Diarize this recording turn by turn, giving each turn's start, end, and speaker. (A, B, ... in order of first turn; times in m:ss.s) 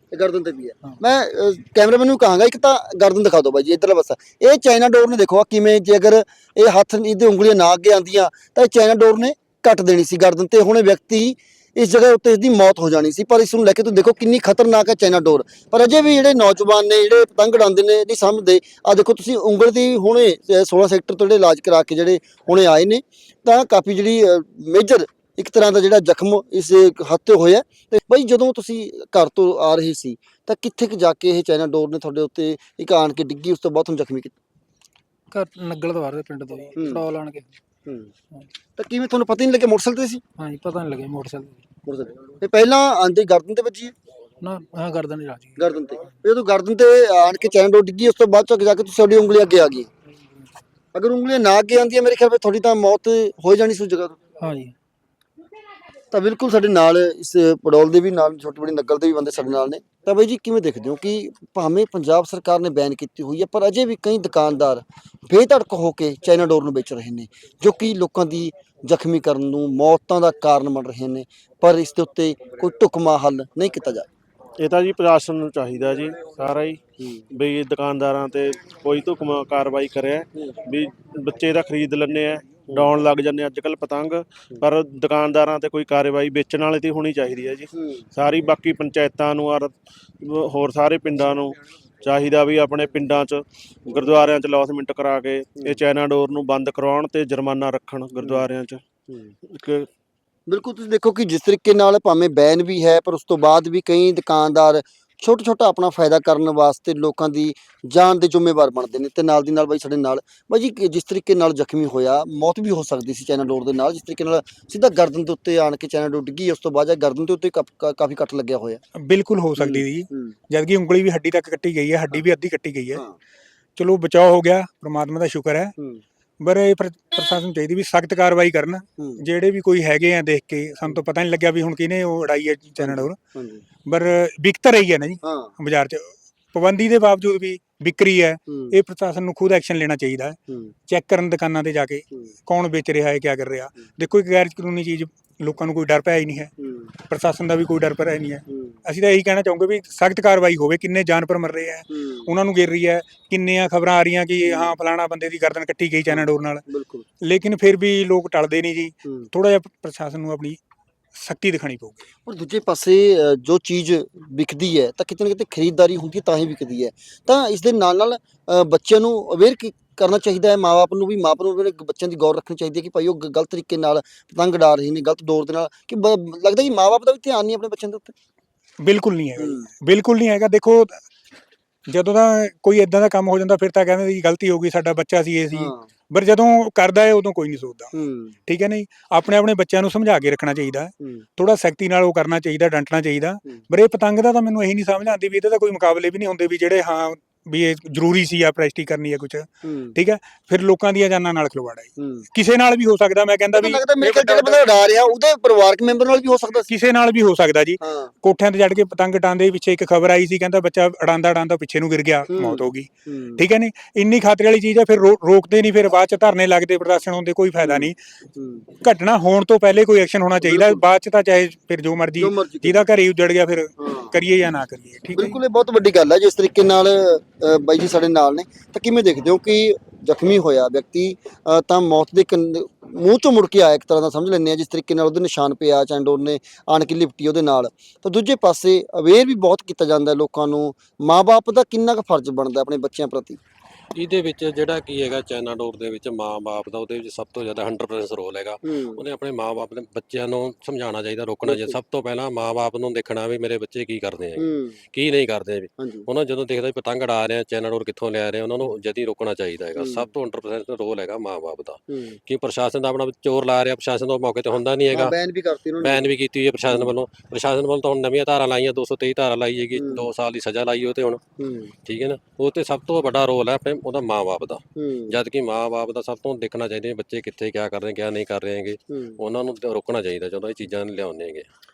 0:00.1-0:34.3 A
0:35.3-0:37.5 B
0:36.8-0:37.0 A
0:37.8-0:38.1 A
0:38.8-0:40.2 A
0:40.4-0:41.6 B
0:41.8-0:43.9 A
0:44.4-0:45.6 B
0:45.6-0:49.9 A
0:50.9-0:54.2 A
0:54.4-0:54.7 B
0:56.1-1:14.1 A
1:14.6-1:38.8 C
1:17.0-1:17.2 A
1:27.7-1:28.0 A
1:38.2-1:38.5 A
1:39.1-1:39.3 A
1:39.4-1:39.9 C
1:40.5-1:58.8 A
1:59.0-2:03.0 D
1:59.6-2:00.3 A
2:03.8-2:05.7 D
2:05.8-2:06.0 A
2:06.4-2:13.2 D
2:09.0-2:09.2 A
2:12.8-2:13.6 A
2:13.9-2:26.5 D
2:15.2-2:15.5 A
2:18.5-2:18.8 A
2:26.6-2:26.9 A
2:27.1-2:36.6 D
2:28.5-2:28.8 A
2:31.9-2:32.3 A
2:34.4-2:34.8 A
2:36.1-2:37.0 A
2:37.2-2:40.6 D
2:41.2-2:42.0 D
2:42.2-2:58.1 A
2:58.8-3:01.0 D
2:59.4-2:59.6 A
3:01.9-3:07.9 D
3:05.5-3:05.8 A
3:07.9-3:08.4 A
3:08.5-3:24.7 D
3:19.6-3:20.0 A
3:22.0-3:22.2 A
3:23.5-3:26.7 A
3:26.7-3:38.0 D
3:27.8-3:28.1 A
3:32.3-3:33.4 A
3:37.6-3:38.7 A
3:38.8-3:45.4 D
3:40.4-3:40.8 A
3:42.2-3:42.9 A
3:43.8-3:44.1 A
3:45.1-4:03.4 A
4:04.0-4:25.1 E
4:08.6-4:09.0 A
4:11.4-4:11.8 A
4:14.4-4:14.8 A
4:15.8-4:16.1 A
4:19.8-4:20.1 A
4:21.9-4:22.2 A
4:24.9-4:26.0 A
4:25.8-4:31.2 E
4:29.8-4:30.0 A
4:31.4-4:31.7 A
4:31.8-4:41.5 E
4:34.8-4:35.1 A
4:38.9-4:39.2 A